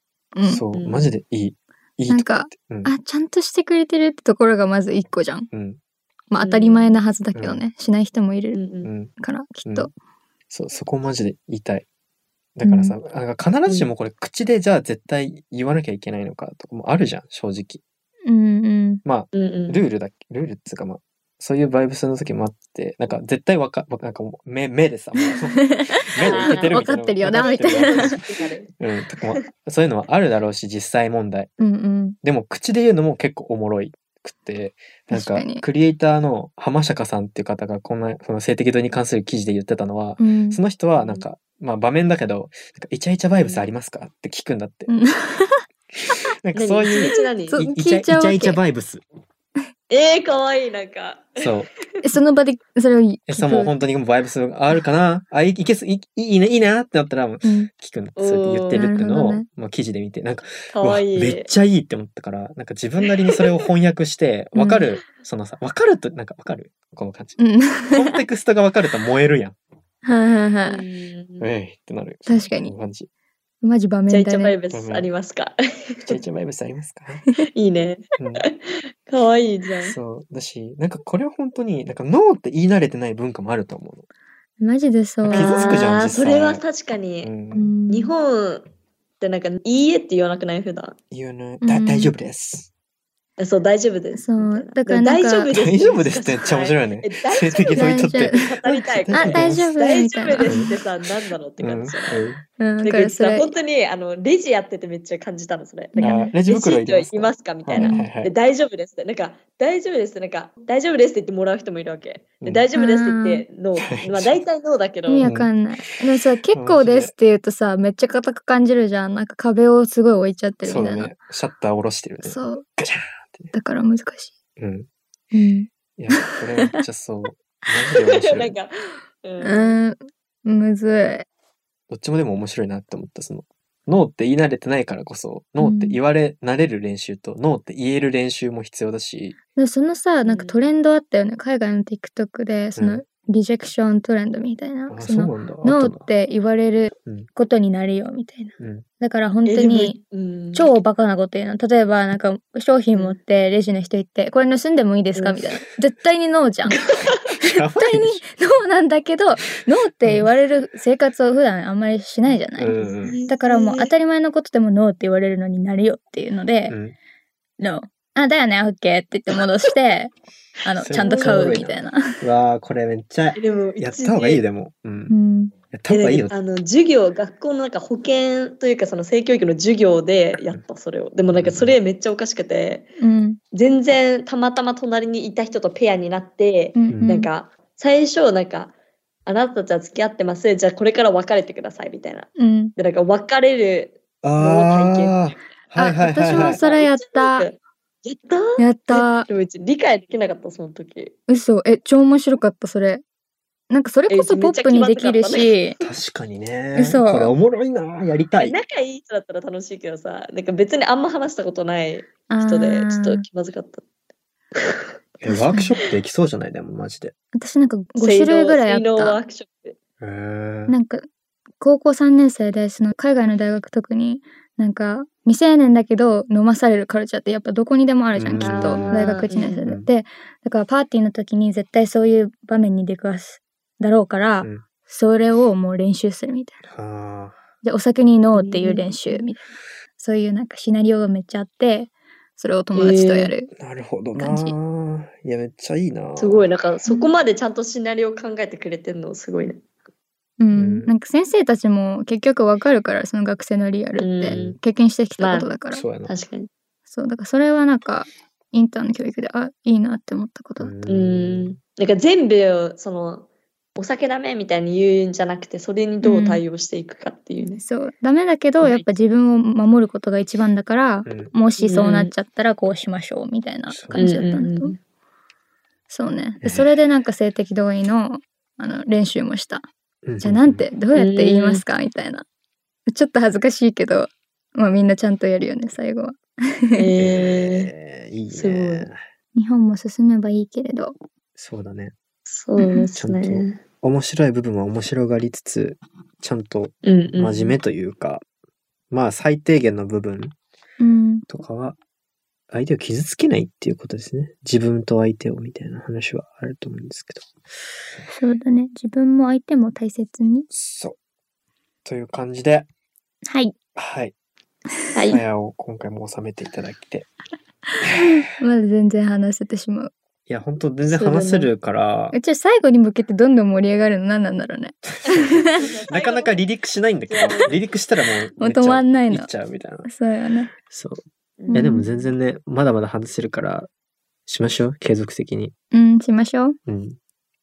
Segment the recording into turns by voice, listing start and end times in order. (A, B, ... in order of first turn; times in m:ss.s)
0:00.4-0:00.6 A
0:00.4-0:02.9 B
0:00.7-0:01.1 C
0:02.1-0:05.5 A
0:05.5-0:05.8 B
0:06.3-0:08.6 A
0:06.4-0:07.0 C
0:07.4-0:07.6 B
0:08.6-0:08.9 C
0:08.8-0:09.1 B
0:09.2-0:09.9 A
0:09.6-0:09.9 B
0:10.5-0:11.9 B
0:12.6-0:17.8 B
0:12.6-0:13.0 A
0:18.3-0:19.0 A
0:19.0-0:28.3 B
0:19.3-0:19.8 C
0:25.2-0:28.2 A
0:26.2-0:28.7 C
0:28.8-0:31.5 B
0:31.6-0:32.2 A
0:32.2-0:44.9 B
0:35.1-0:35.6 A
0:40.2-0:40.6 A
0:41.0-0:41.3 C
0:43.3-0:43.7 C
0:44.9-0:45.6 A
0:46.1-0:49.0 B
0:46.6-0:47.6 C
0:47.5-0:48.6 A
0:49.9-0:52.0 C
0:51.4-0:51.7 B
0:52.0-0:53.7 A
0:53.3-1:07.4 B
0:57.4-0:57.7 A
0:58.2-0:58.8 C
0:58.7-0:59.5 A
1:00.7-1:01.5 C
1:04.6-1:04.9 A
1:07.4-1:08.2 A
1:07.9-1:09.6 B
1:10.0-1:10.8 A
1:10.7-1:11.5 C
1:11.4-1:13.1 B
1:12.3-1:12.7 A
1:13.6-1:14.6 A
1:14.1-1:16.2 C
1:14.7-1:15.1 B
1:16.0-1:17.2 B
1:17.6-1:20.0 C
1:18.2-1:18.5 B
1:19.8-1:24.1 B
1:24.6-1:25.9 A
1:25.3-1:27.3 C
1:25.3-1:26.6 B
1:27.2-1:27.7 B
1:27.5-1:28.2 A
1:27.9-1:28.6 C
1:29.2-1:31.0 C
1:31.1-1:32.7 B
1:31.6-1:32.1 A
1:33.4-1:42.2 C
1:34.2-1:35.5 A
1:35.5-1:39.7 B
1:37.7-1:38.4 A
1:39.1-1:40.7 A
1:40.4-1:40.8 B
1:41.6-1:42.4 B
1:42.6-1:43.5 A
1:42.8-1:55.3 C
1:46.0-1:46.3 A
1:46.0-1:48.3 B
1:47.8-1:48.1 A
1:52.4-1:52.7 B
1:52.8-1:53.4 A
1:53.9-1:54.4 B
1:55.1-2:01.1 A
1:55.2-1:55.5 B
1:56.5-1:57.1 B
2:00.6-2:03.5 B
2:02.2-2:02.6 A
2:03.5-2:04.3 A
2:04.6-2:04.9 B
2:05.3-2:06.7 A
2:06.0-2:08.6 B
2:08.0-2:08.7 C
2:09.2-2:09.8 C
2:09.4-2:11.3 A
2:11.9-2:19.4 B
2:15.6-2:16.0 A
2:19.6-2:30.0 A
2:20.2-2:20.6 C
2:22.8-2:23.0 B
2:24.9-2:26.1 B
2:28.6-2:28.8 B
2:29.5-2:30.7 C
2:30.5-2:36.8 A
2:35.2-2:35.4 C
2:36.7-2:37.2 C
2:37.4-2:38.2 B
2:37.5-2:46.8 A
2:42.6-2:43.2 B
2:43.0-2:43.9 C
2:46.7-2:47.0 B
2:47.6-2:50.1 A
2:50.6-2:52.2 A
2:50.8-2:55.2 B
2:51.1-2:51.6 C
2:53.4-2:54.4 C
2:55.1-2:55.5 A
2:55.7-2:56.3 B
2:55.9-3:02.9 C
3:01.3-3:01.8 B
3:03.0-3:03.4 A
3:03.5-3:08.7 C
3:06.8-3:07.3 A
3:09.3-3:15.2 C
3:12.4-3:12.7 A
3:14.2-3:16.6 B
3:15.8-3:17.5 A
3:16.3-3:21.2 C
3:18.6-3:19.3 A
3:21.3-3:23.0 A
3:23.7-3:25.8 A
3:24.1-3:25.5 C
3:25.8-3:28.6 B
3:26.8-3:27.3 A
3:28.4-3:33.8 C
3:32.3-3:33.2 A
3:34.6-3:34.9 C
3:35.2-3:37.1 B
3:35.3-3:35.8 A
3:37.3-3:39.2 A
3:38.0-3:39.8 C
3:40.0-3:40.8 B
3:40.7-3:41.1 A
3:41.6-3:56.6 A
3:48.2-3:49.1 B
3:48.4-3:49.7 C
3:56.6-3:57.4 B
3:57.6-3:59.4 A
3:58.4-3:59.2 C
4:00.0-4:03.5 A
4:02.8-4:03.3 C
4:03.5-4:06.5 B
4:04.2-4:04.6 A
4:06.2-4:09.6 C
4:06.8-4:07.1 A
4:10.4-4:15.8 A
4:10.5-4:10.9 B
4:14.0-4:14.5 C
4:14.3-4:14.6 B
4:15.2-4:15.6 C
4:15.7-4:16.1 B
4:16.1-4:16.5 C
4:16.9-4:20.7 A
4:20.6-4:21.6 B
4:20.9-4:27.6 C
4:26.0-4:26.4 A
4:27.6-4:34.7 A
4:28.6-4:28.9 C
4:31.1-4:31.3 B
4:31.6-4:32.1 C
4:33.7-4:34.0 B
4:34.0-4:34.8 C
4:35.9-4:39.6 A
4:36.4-4:36.7 B
4:40.0-4:40.7 B
4:40.2-4:42.3 A
4:41.0-4:41.6 C
4:42.9-4:46.8 A
4:46.7-4:47.7 C
4:47.0-4:49.0 B
4:48.3-4:48.9 C
4:49.4-4:50.9 A
4:51.4-4:52.0 B
4:52.3-4:53.6 C
4:52.6-4:52.9 A
4:53.0-4:58.2 B
4:56.8-4:57.6 C
4:58.9-5:00.4 B
5:00.8-5:01.2 A
5:01.3-5:01.8 B
5:02.5-5:07.3 B
5:08.1-5:10.5 A
5:10.5-5:11.0 B
5:11.8-5:12.7 B
5:13.3-5:13.5 A
5:13.8-5:14.1 B
5:14.9-5:15.2 A
5:15.1-5:17.1 B
5:17.8-5:19.9 A
5:20.3-5:22.2 B
5:20.8-5:21.5 C
5:22.1-5:25.7 A
5:24.9-5:29.9 B
5:25.6-5:26.3 C
5:27.1-5:27.5 C
5:28.4-5:29.3 A
5:29.8-5:30.5 A
5:30.6-5:33.7 B
5:31.4-5:31.7 C
5:31.5-5:31.9 A
5:34.3-5:35.5 B
5:35.7-5:36.6 A
5:36.7-5:37.0 B